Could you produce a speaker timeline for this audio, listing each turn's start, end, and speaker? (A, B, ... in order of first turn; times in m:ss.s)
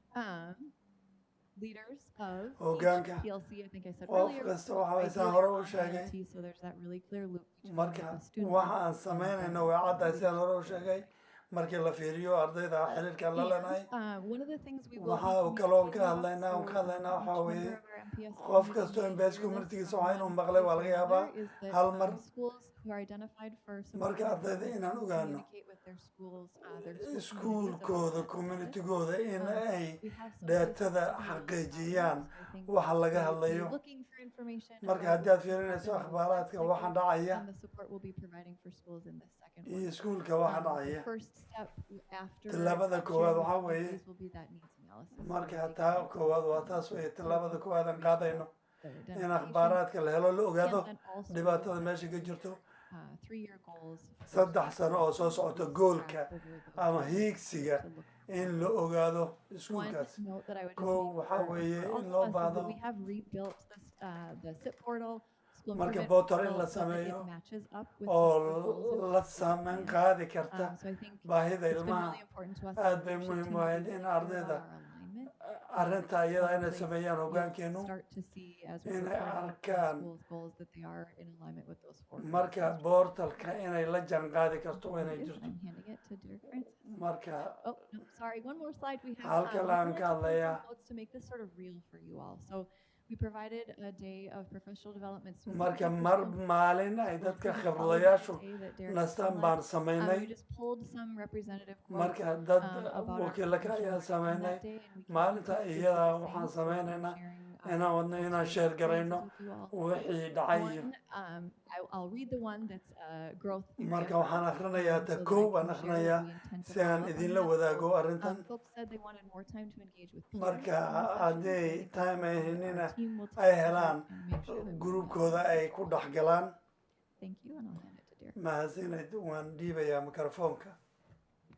0:00.1-0:00.7 A
0:01.6-0:11.1 A
0:02.6-0:03.2 B
0:04.1-0:06.1 B
0:07.6-0:13.9 B
0:13.3-0:28.8 A
0:15.0-0:17.8 B
0:18.4-0:22.2 B
0:24.0-0:25.4 B
0:26.8-0:33.7 B
0:29.3-0:49.8 A
0:34.8-0:37.4 B
0:39.7-0:41.0 B
0:42.5-0:44.0 B
0:45.2-0:48.5 B
0:49.1-0:52.6 B
0:50.6-0:58.8 A
0:54.3-1:00.2 B
0:59.7-1:22.9 A
1:00.8-1:02.8 B
1:05.8-1:07.3 B
1:08.1-1:10.7 B
1:11.2-1:12.2 B
1:12.8-1:14.6 B
1:15.4-1:17.9 B
1:18.8-1:20.1 B
1:22.2-1:25.5 B
1:24.7-1:26.9 A
1:26.8-1:27.6 B
1:27.5-1:49.8 A
1:29.2-1:30.6 B
1:35.5-1:40.3 B
1:41.9-1:50.9 B
1:50.5-2:06.0 A
1:53.8-1:58.4 B
2:00.3-2:06.6 B
2:07.2-2:08.4 A
2:08.4-2:10.8 B